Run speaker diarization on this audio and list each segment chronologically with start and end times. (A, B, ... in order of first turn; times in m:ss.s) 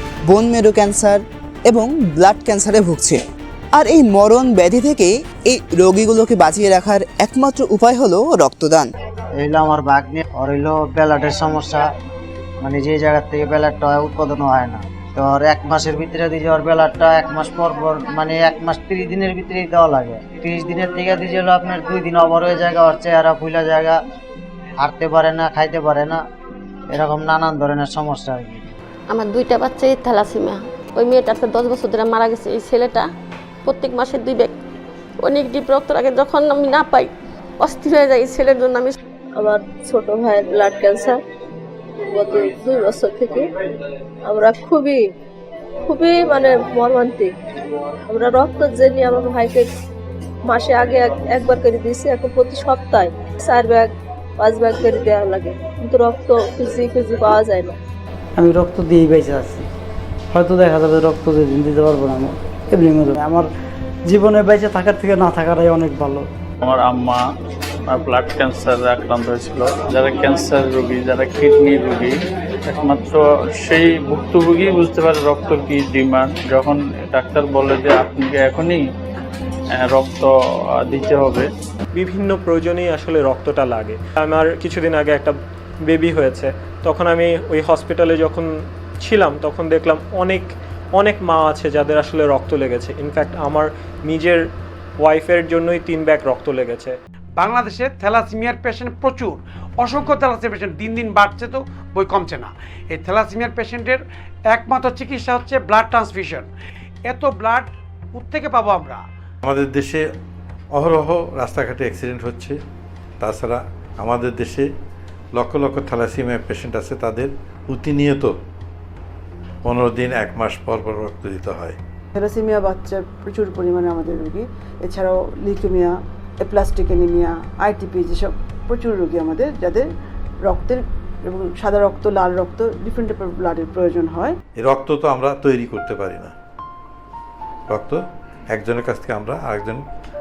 0:00.3-0:03.2 A
0:03.7-0:08.9 A
0:09.4-0:11.8 B
0:12.6-0:24.0 B
0:24.8-0:26.2 B
0:26.9-0:28.7 B
0:29.1-0:33.0 C
0:33.6-0:34.5 C
0:35.2-0:37.1 C
0:37.6-0:39.0 C
0:39.4-0:41.2 D
0:42.1-0:43.5 D
0:44.2-0:45.0 D
0:45.8-0:47.3 D
0:48.1-0:49.7 D
0:50.4-0:57.7 D
0:58.4-0:59.6 E
1:00.3-1:03.5 E
1:04.1-1:06.2 E
1:06.6-1:07.2 F
1:07.9-1:12.1 F
1:12.7-1:18.8 F
1:19.8-1:21.5 F
1:22.0-1:34.4 G
1:35.0-1:37.0 G
1:37.4-1:46.5 H
1:47.0-1:49.0 H
1:49.4-1:50.0 I
1:50.7-1:52.6 I
1:53.2-1:54.7 I
1:55.3-1:58.3 I
1:59.6-2:01.8 I
2:02.1-2:09.9 J
2:10.5-2:14.3 J
2:14.6-2:16.3 I
2:17.7-2:18.0 I
2:18.5-2:19.8 I